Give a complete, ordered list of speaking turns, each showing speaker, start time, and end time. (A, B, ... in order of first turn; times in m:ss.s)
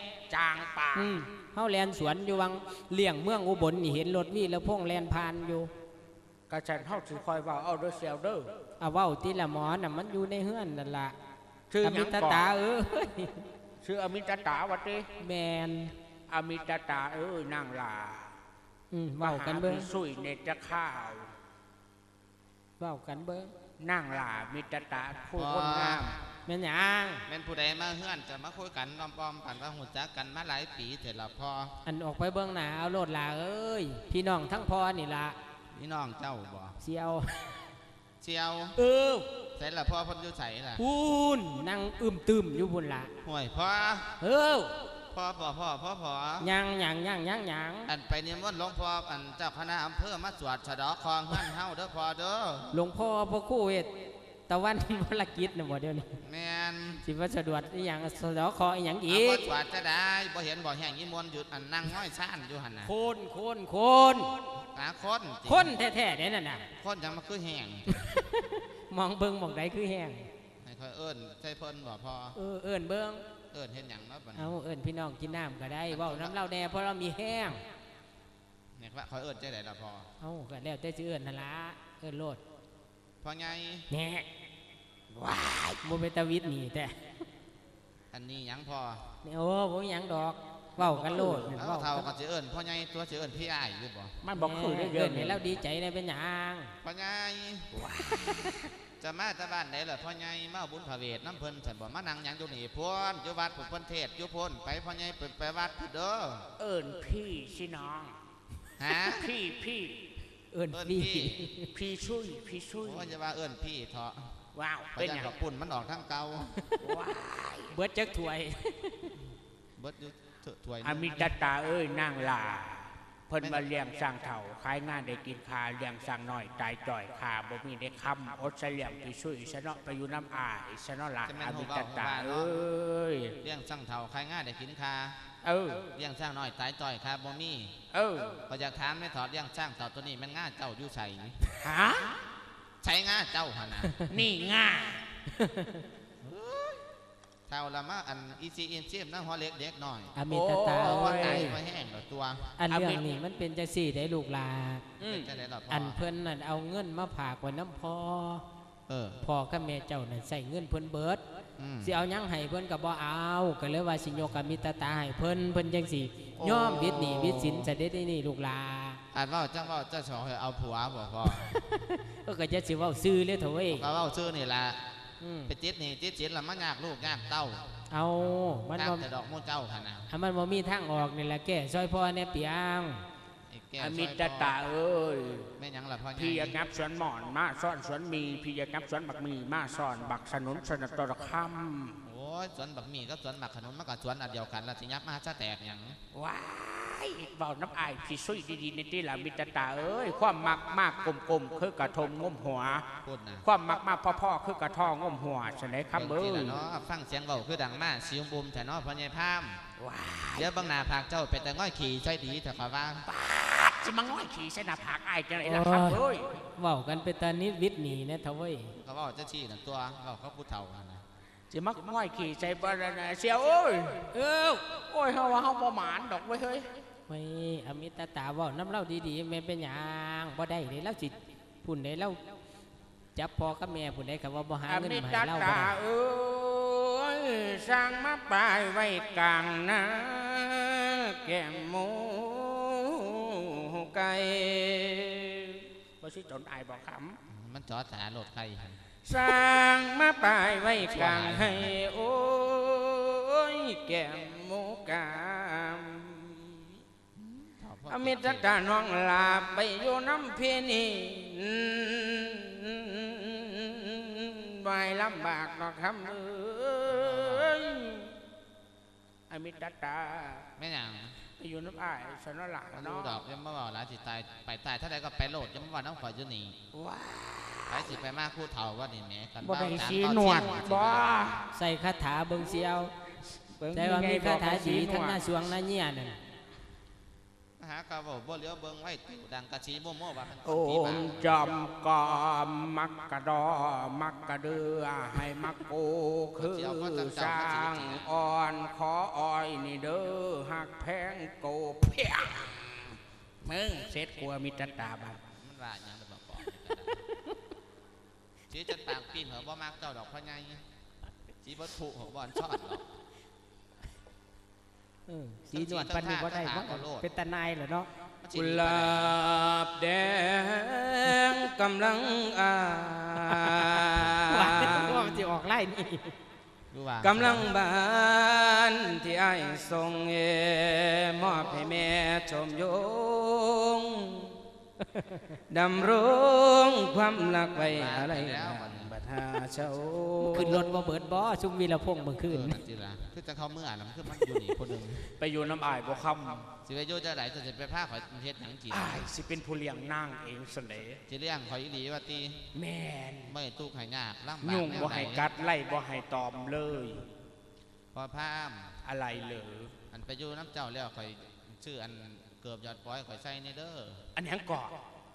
0:00.3-0:01.2 A
0:00.9-0:05.7 B
0:06.5-0:08.5 A
0:08.8-0:11.1 B
0:11.7-0:12.5 A
0:11.8-0:13.4 B
0:13.8-0:15.1 A
0:15.2-0:15.9 B
0:16.3-0:18.3 A
0:18.9-0:19.9 B
0:19.2-0:21.3 A
0:22.8-0:23.5 B
0:23.8-0:26.2 A
0:25.4-0:26.1 C
0:26.4-0:27.2 B
0:27.3-0:31.8 C
0:31.8-0:35.4 B
0:35.7-0:36.8 C
0:36.8-0:37.7 B
0:38.2-0:38.8 C
0:38.8-0:39.3 B
0:39.6-0:40.8 C
0:40.8-0:43.1 B
0:43.2-0:44.2 C
0:44.2-0:44.9 B
0:45.1-0:46.5 C
0:46.4-0:47.9 B
0:47.8-0:52.7 C
0:52.7-0:53.9 B
0:54.5-0:56.1 B
0:56.2-0:57.0 C
0:57.0-0:59.5 B
0:59.1-1:02.9 C
1:02.8-1:04.4 B
1:04.7-1:05.7 C
1:05.4-1:06.7 B
1:06.8-1:07.9 C
1:07.9-1:10.3 B
1:10.6-1:12.4 C
1:12.3-1:13.2 B
1:13.5-1:14.6 C
1:14.3-1:17.6 B
1:15.9-1:16.4 C
1:18.8-1:20.1 C
1:20.2-1:22.4 B
1:23.2-1:23.9 C
1:24.0-1:24.2 B
1:25.1-1:25.8 A
1:25.8-1:27.0 B
1:28.1-1:29.1 C
1:29.2-1:32.1 B
1:30.8-1:31.6 A
1:31.5-1:34.2 C
1:34.2-1:35.5 A
1:34.4-1:36.7 B
1:36.8-1:37.8 C
1:37.7-1:38.6 A
1:38.3-1:38.5 B
1:39.0-1:46.5 C
1:46.6-1:48.2 A
1:48.8-1:49.3 C
1:49.1-1:50.1 A
1:50.5-1:51.7 B
1:50.7-1:51.5 C
1:51.7-1:53.1 A
1:52.8-1:54.3 C
1:54.5-1:55.3 A
1:55.0-1:56.6 C
1:56.8-1:57.7 A
1:57.7-1:59.1 B
1:59.8-2:01.3 C
2:00.8-2:13.4 A
2:03.4-2:03.6 C
2:11.2-2:12.6 C
2:13.4-2:15.2 C
2:15.4-2:15.9 A
2:15.9-2:17.7 C
2:17.9-2:18.4 A
2:18.5-2:21.4 C
2:21.6-2:22.2 A
2:22.8-2:24.0 C
2:24.1-2:25.0 A
2:25.3-2:25.8 B
2:26.2-2:26.8 C
2:27.5-2:30.2 C
2:30.1-2:31.6 B
2:30.3-2:31.6 A
2:30.7-2:32.5 C
2:32.6-2:34.9 B
2:32.7-2:33.1 A
2:35.0-2:35.3 A
2:35.0-2:36.0 C
2:35.7-2:38.4 B
2:38.9-2:39.2 C
2:39.2-2:41.2 B
2:41.6-2:41.9 C
2:41.8-2:49.0 B
2:46.4-2:47.7 C
2:49.1-2:51.5 C
2:51.3-2:53.9 B
2:53.7-2:54.8 C
2:55.2-2:55.5 B
2:55.5-2:57.7 C
2:57.9-2:59.0 B
2:58.7-3:00.1 C
3:00.1-3:03.0 B
3:03.5-3:04.6 C
3:03.8-3:05.5 A
3:05.6-3:06.6 C
3:06.2-3:12.0 A
3:12.0-3:16.0 C
3:16.1-3:22.9 A
3:23.0-3:23.5 C
3:23.4-3:26.6 A
3:25.9-3:29.6 C
3:29.8-3:30.5 A
3:30.3-3:33.0 C
3:33.0-3:36.4 A
3:35.4-3:36.0 B
3:36.6-3:38.7 B
3:38.7-3:41.0 C
3:41.5-3:46.7 A
3:47.1-3:52.2 B
3:53.1-3:55.8 B
3:54.7-4:07.2 A
4:07.3-4:08.8 C
4:09.0-4:16.7 A
4:10.8-4:11.7 C
4:17.2-4:18.6 C
4:17.9-4:28.1 A
4:26.8-4:27.6 C
4:29.3-4:30.4 A
4:30.6-4:31.2 C
4:31.4-4:33.2 A
4:32.7-4:36.6 C
4:36.7-4:38.0 A
4:37.7-4:41.4 C
4:39.4-4:41.4 A
4:41.5-4:42.9 B
4:43.6-4:45.2 A
4:43.7-4:46.2 B
4:47.6-4:51.4 C
4:50.4-5:05.2 A
4:56.4-4:58.1 C
5:05.3-5:07.0 C
5:08.5-5:10.6 C
5:11.4-5:12.9 C
5:15.1-5:17.9 B
5:15.5-5:17.1 C
5:18.2-5:19.2 C
5:18.3-5:25.2 A
5:23.3-5:26.1 B
5:26.7-5:27.5 C
5:27.0-5:34.4 A
5:34.9-5:35.2 B
5:35.5-5:40.7 A
5:37.6-5:38.9 C
5:40.3-5:42.6 B
5:42.3-5:45.0 C
5:45.2-5:46.5 A
5:46.6-5:49.1 C
5:48.7-5:51.0 A
5:51.1-5:52.4 C
5:52.5-5:53.4 A
5:53.3-5:55.3 C
5:54.4-5:57.0 A
5:57.9-5:58.8 C
5:58.8-5:59.7 A
5:59.9-6:04.0 C
6:04.2-6:04.8 A